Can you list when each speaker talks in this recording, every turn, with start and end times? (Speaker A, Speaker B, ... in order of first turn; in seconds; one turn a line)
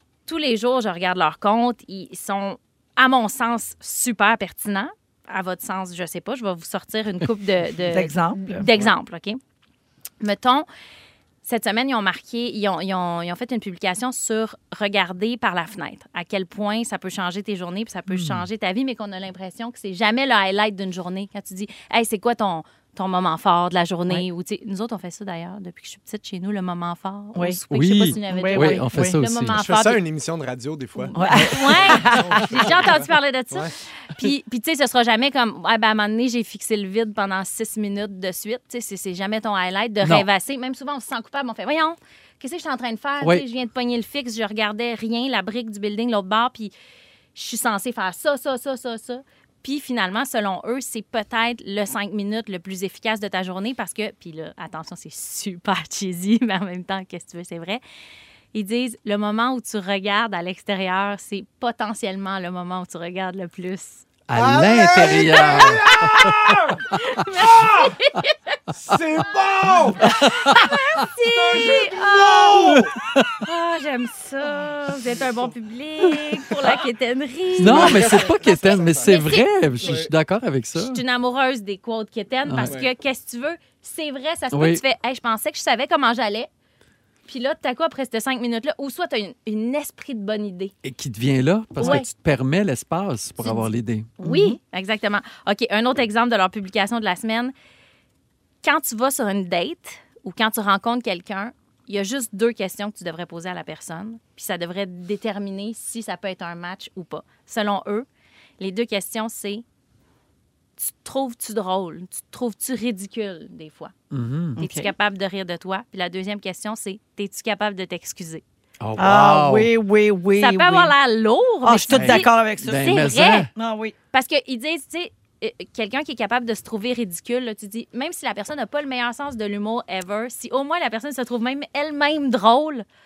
Speaker A: 0.3-9.4
Speaker B: 7.9-8.7
Speaker A: 10.2-10.7
Speaker A: 11.4-30.0
Speaker C: 18.1-18.4
Speaker C: 27.7-29.6
Speaker B: 28.2-29.2
Speaker D: 29.5-33.7
Speaker A: 31.0-46.7
Speaker B: 31.1-32.5
Speaker C: 40.0-40.3
Speaker A: 47.3-57.8
Speaker A: 58.5-64.0
Speaker C: 64.3-66.3
Speaker D: 64.3-66.8
Speaker A: 65.0-66.0
Speaker A: 66.9-68.4
Speaker D: 67.5-67.9
Speaker D: 68.7-70.1
Speaker A: 70.0-72.8
Speaker C: 70.0-70.7
Speaker D: 71.2-72.9
Speaker C: 72.5-73.3
Speaker A: 73.4-80.0
Speaker D: 77.5-79.1
Speaker C: 77.6-81.0
Speaker D: 79.8-80.1
Speaker A: 80.8-86.5
Speaker C: 82.5-82.7
Speaker C: 84.5-84.8
Speaker A: 87.3-90.7
Speaker C: 90.8-94.1
Speaker A: 91.8-92.1
Speaker A: 93.4-97.5
Speaker B: 94.2-94.6
Speaker A: 98.6-108.0
Speaker A: 108.6-109.6
Speaker A: 110.8-113.9
Speaker C: 114.1-114.6
Speaker B: 114.6-114.9
Speaker A: 114.6-118.4
Speaker C: 118.8-119.7
Speaker B: 119.0-120.9
Speaker A: 120.4-123.5
Speaker B: 121.6-123.9
Speaker C: 121.9-123.5
Speaker A: 124.1-132.8